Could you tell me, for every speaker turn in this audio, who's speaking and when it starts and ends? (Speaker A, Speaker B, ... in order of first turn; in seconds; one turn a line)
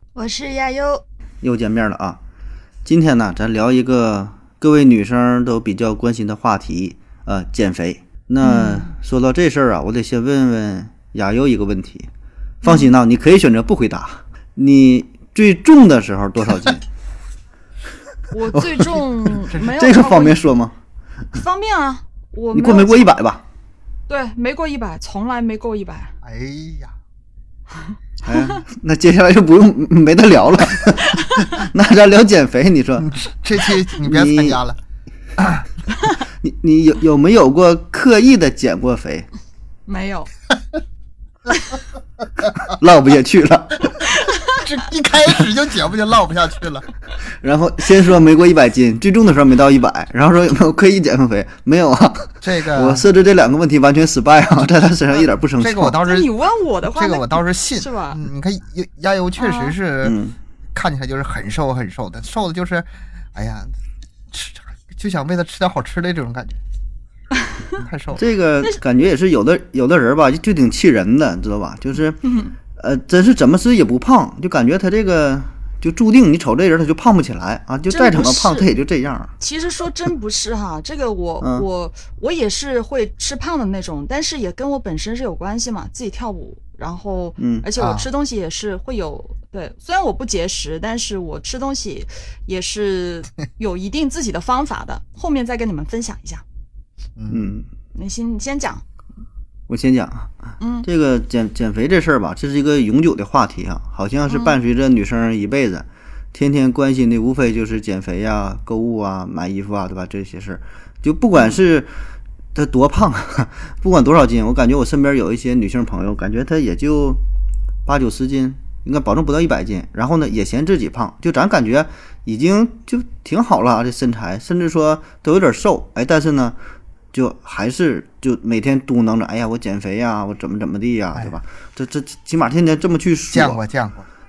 Speaker A: 0.1-1.0
Speaker B: 1.4-2.2
Speaker B: 2.8-12.1
Speaker A: 8.4-8.9
Speaker A: 12.6-12.9
Speaker B: 12.6-16.8
Speaker A: 18.3-20.4
Speaker B: 18.5-20.7
Speaker A: 21.3-23.1
Speaker B: 22.5-23.4
Speaker A: 24.1-26.1
Speaker C: 26.2-26.9
Speaker B: 28.2-33.1
Speaker C: 33.0-34.8
Speaker B: 34.0-34.6
Speaker C: 35.4-35.6
Speaker B: 36.4-39.3
Speaker A: 39.9-40.3
Speaker B: 42.5-44.0
Speaker A: 44.1-44.6
Speaker C: 44.5-46.9
Speaker B: 47.4-56.0
Speaker C: 52.4-53.1
Speaker C: 55.5-56.3
Speaker A: 56.0-58.2
Speaker C: 56.9-60.2
Speaker A: 59.4-59.8
Speaker B: 60.0-60.4
Speaker C: 60.7-63.7
Speaker C: 64.3-66.6
Speaker C: 67.8-68.2
Speaker B: 68.2-72.2
Speaker A: 72.2-72.5
Speaker B: 72.8-79.3
Speaker A: 77.9-78.7
Speaker A: 79.4-96.4
Speaker B: 81.4-81.7
Speaker B: 87.4-87.7
Speaker C: 87.8-88.1
Speaker C: 97.2-97.5
Speaker B: 97.3-97.7
Speaker A: 97.9-98.8
Speaker B: 99.7-100.3
Speaker A: 100.6-100.9
Speaker B: 100.8-111.9
Speaker B: 112.5-117.2
Speaker B: 117.8-126.5
Speaker B: 127.1-133.6
Speaker C: 133.3-134.1